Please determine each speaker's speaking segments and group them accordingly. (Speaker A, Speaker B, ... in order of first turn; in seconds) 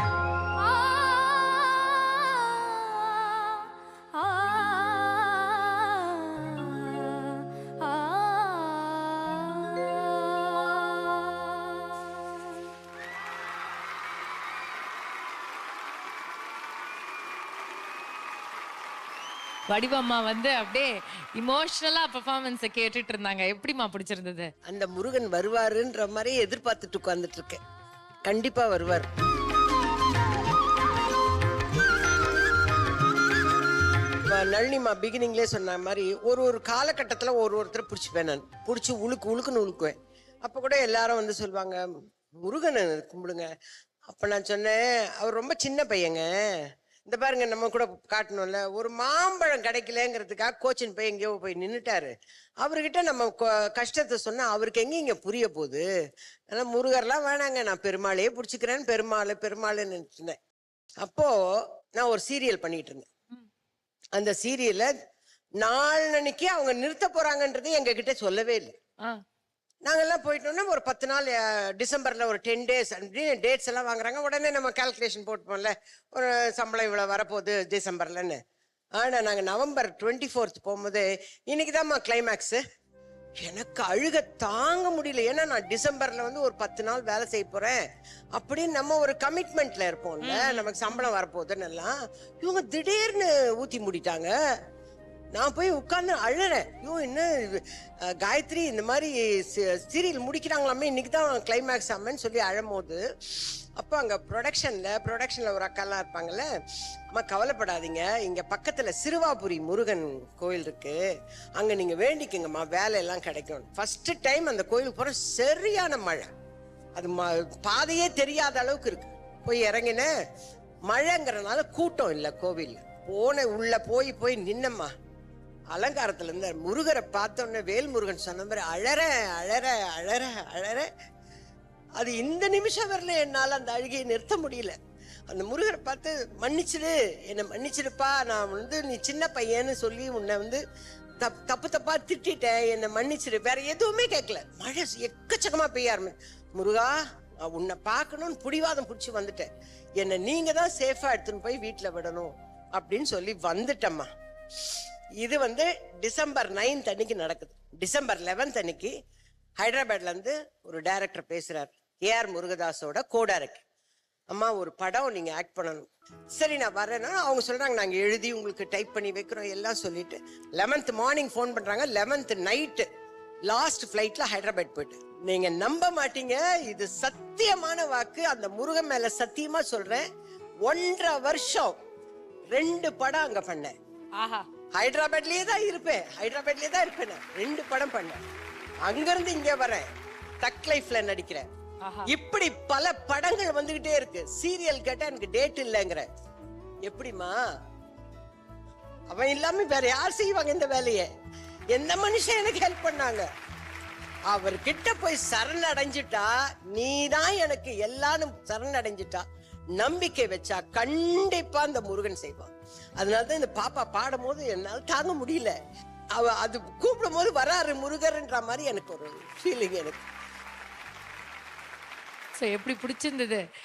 Speaker A: 0.6-12.0, 19.7-24.5, 90.2-91.0, 184.2-184.5, 191.8-192.1, 222.4-223.4
Speaker B: 24.7-27.6, 28.3-29.1, 34.3-41.9, 42.4-43.5, 44.1-46.2, 47.1-52.1, 52.6-55.8, 56.5-60.4, 61.0-61.4, 62.0-63.1, 64.2-64.9, 65.6-68.7, 69.9-78.4, 79.0-82.6, 83.4-87.8, 88.4-94.3, 95.4-103.0, 103.8-106.5, 107.1-111.0, 111.6-116.3, 117.0-120.1, 120.9-124.9, 125.7-130.9, 132.0-134.8, 135.3-140.6, 141.2-154.1, 155.2-158.9, 159.6-163.6, 164.3-172.9, 173.5-180.1, 180.7-181.7, 182.5-183.7, 184.8-188.2, 188.8-189.8, 190.4-191.4, 192.1-196.1, 196.9-197.4, 199.1-201.1, 201.7-203.3, 204.3-209.2, 209.8-215.5, 216.2-220.1